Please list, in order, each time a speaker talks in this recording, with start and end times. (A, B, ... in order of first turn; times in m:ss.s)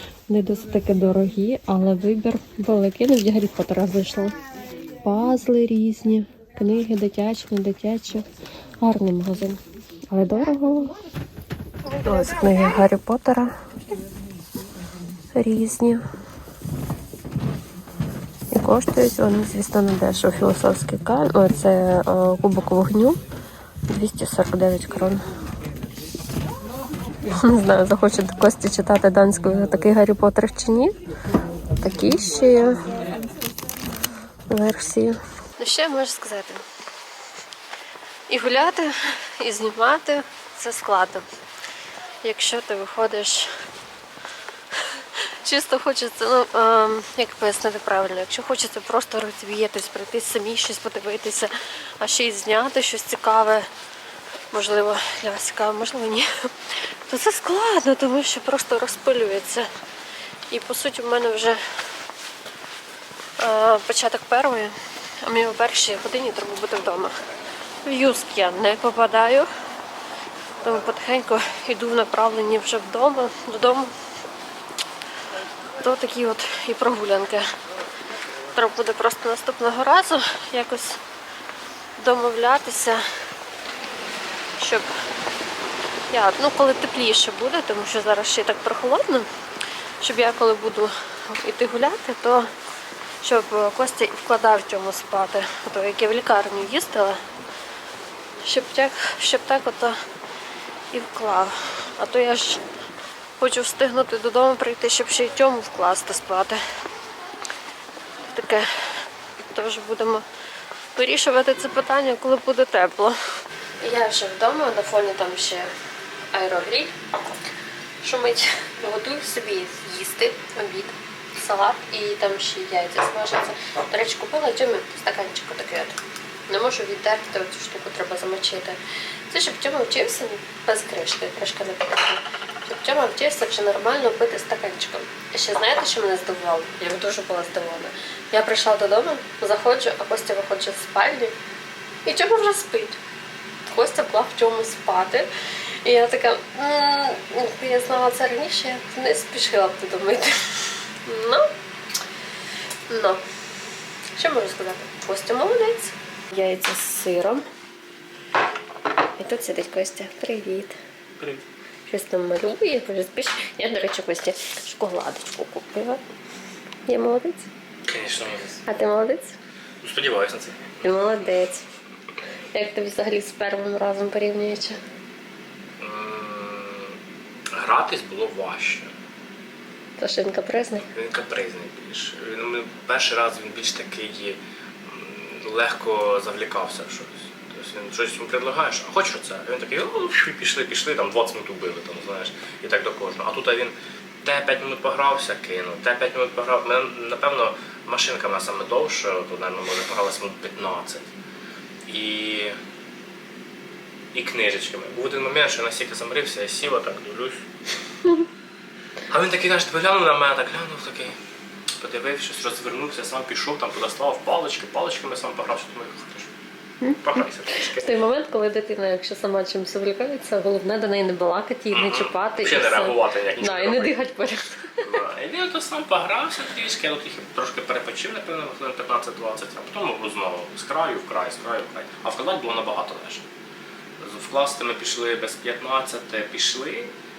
0:00.3-0:04.4 A
0:05.0-0:08.2 A
0:08.8-0:11.0 A
0:12.0-0:13.6 A
0:15.3-0:16.0 A
0:18.5-0:23.2 A
0:23.9-0:25.2 A
0:27.2-0:31.0 A
0:31.8-0:33.0 A
0:34.5-0:36.6 A
0:38.3-0:41.2 A
0:42.2-0:43.5 A
0:44.7-0:53.7 A
0:54.5-0:59.7 A
1:00.5-1:01.6 A
1:03.4-1:07.1 A
1:07.8-1:09.5 A
1:10.6-1:13.9 A
1:15.8-1:17.5 A
1:18.5-1:21.0 A
1:22.0-1:23.0 A
1:24.6-1:24.9 A
1:26.1-1:29.3 A
1:30.0-1:32.5 A
1:33.2-1:37.2 A
1:38.4-1:40.0 A
1:40.9-1:42.6 A
1:43.4-1:46.6 A
1:48.3-1:50.2 A
1:50.9-1:53.2 A
1:53.8-1:55.7 A
1:56.3-1:56.9 A
1:58.0-2:06.0 A
2:06.5-2:21.3 A
2:22.0-2:23.0 A
2:23.7-2:31.5 A
2:32.9-2:33.2 A
2:34.1-2:37.4 A
2:39.2-2:40.8 A
2:41.2-2:41.4 B
2:41.9-2:46.0 A
2:46.9-2:47.5 A
2:47.8-2:48.6 B
2:48.6-2:49.4 A
2:49.8-2:50.8 B
2:50.8-2:51.6 A
2:52.5-2:54.8 A
2:55.8-2:57.0 B
2:57.5-2:58.9 B
3:00.0-3:00.9 A
3:00.9-3:21.1 B
3:21.8-3:22.6 B
3:24.1-3:27.5 B
3:29.0-3:31.2 B
3:31.7-3:36.3 B
3:36.8-3:45.0 A
3:37.0-3:38.0 B
3:41.7-3:44.0 B
3:44.8-3:53.3 B
3:54.0-3:56.9 B